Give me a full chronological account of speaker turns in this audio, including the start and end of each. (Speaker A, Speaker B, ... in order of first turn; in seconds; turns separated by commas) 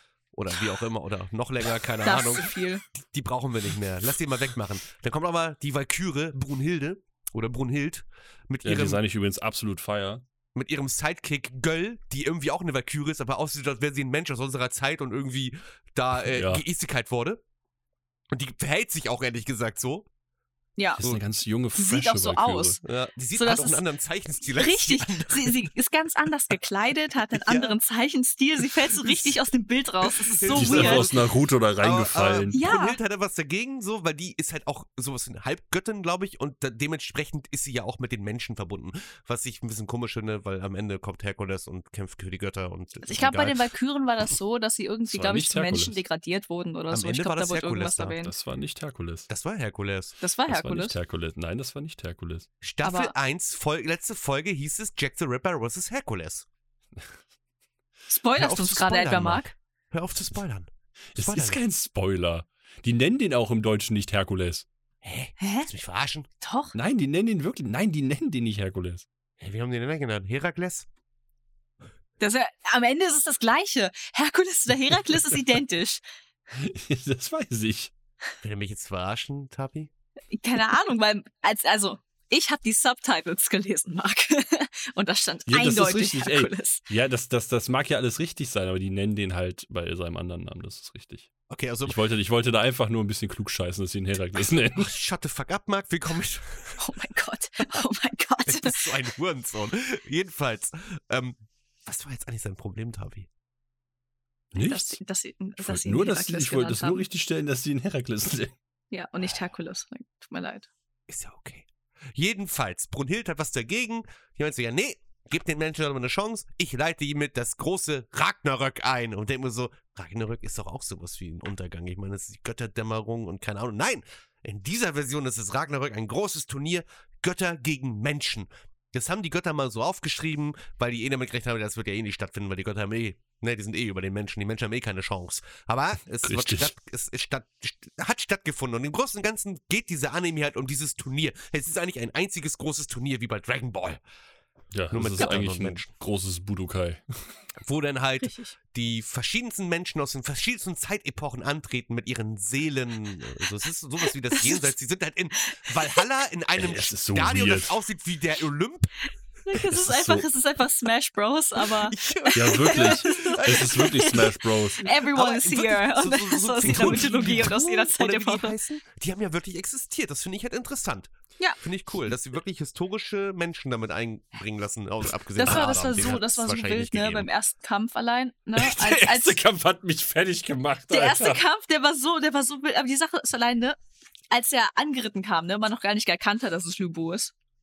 Speaker A: 0.3-9.0, Speaker B: 2.0-2.8, Speaker C: 8.6-10.2, Speaker A: 10.5-17.4, Speaker C: 16.3-16.6, Speaker A: 18.3-20.1, Speaker B: 20.8-21.1, Speaker C: 21.0-22.8, Speaker B: 21.7-22.8, Speaker A: 22.8-25.7, Speaker B: 23.3-23.9, Speaker B: 24.4-31.1, Speaker A: 27.4-27.8, Speaker A: 29.0-29.4, Speaker A: 30.0-31.3, Speaker C: 30.5-32.6, Speaker A: 31.8-43.6, Speaker B: 32.5-33.0, Speaker B: 43.0-48.3, Speaker C: 45.1-46.0, Speaker A: 46.9-48.2, Speaker C: 48.2-49.3, Speaker A: 49.3-50.1, Speaker B: 50.2-50.9, Speaker C: 50.5-52.5, Speaker A: 52.6-56.5, Speaker B: 52.8-53.1, Speaker B: 58.1-59.5, Speaker A: 58.4-61.6, Speaker C: 61.1-64.7, Speaker A: 65.0-66.3, Speaker B: 65.4-65.7, Speaker B: 66.4-66.7, Speaker C: 66.7-69.0, Speaker A: 69.4-70.9, Speaker B: 72.2-76.0, Speaker C: 76.5-77.9, Speaker A: 78.4-79.9, Speaker B: 80.3-86.8, Speaker C: 85.5-91.3, Speaker A: 91.5-92.0, Speaker C: 91.9-94.9, Speaker A: 94.4-96.8, Speaker B: 96.8-98.9, Speaker A: 98.5-103.3, Speaker C: 104.5-105.0, Speaker B: 104.5-107.0, Speaker C: 105.6-108.5, Speaker B: 108.9-110.7, Speaker A: 111.1-144.0, Speaker C: 136.2-136.7, Speaker C: 144.7-147.0, Speaker A: 144.9-145.9, Speaker A: 147.6-158.9, Speaker B: 148.2-148.5, Speaker B: 154.3-154.7, Speaker C: 156.6-157.8, Speaker B: 159.4-168.6, Speaker C: 159.5-160.2, Speaker A: 161.6-164.2, Speaker C: 162.3-164.9, Speaker A: 164.8-177.3, Speaker C: 166.6-167.5, Speaker B: 175.3-179.4, Speaker C: 175.4-175.8, Speaker C: 178.6-181.4, Speaker B: 180.9-183.8, Speaker B: 184.3-187.3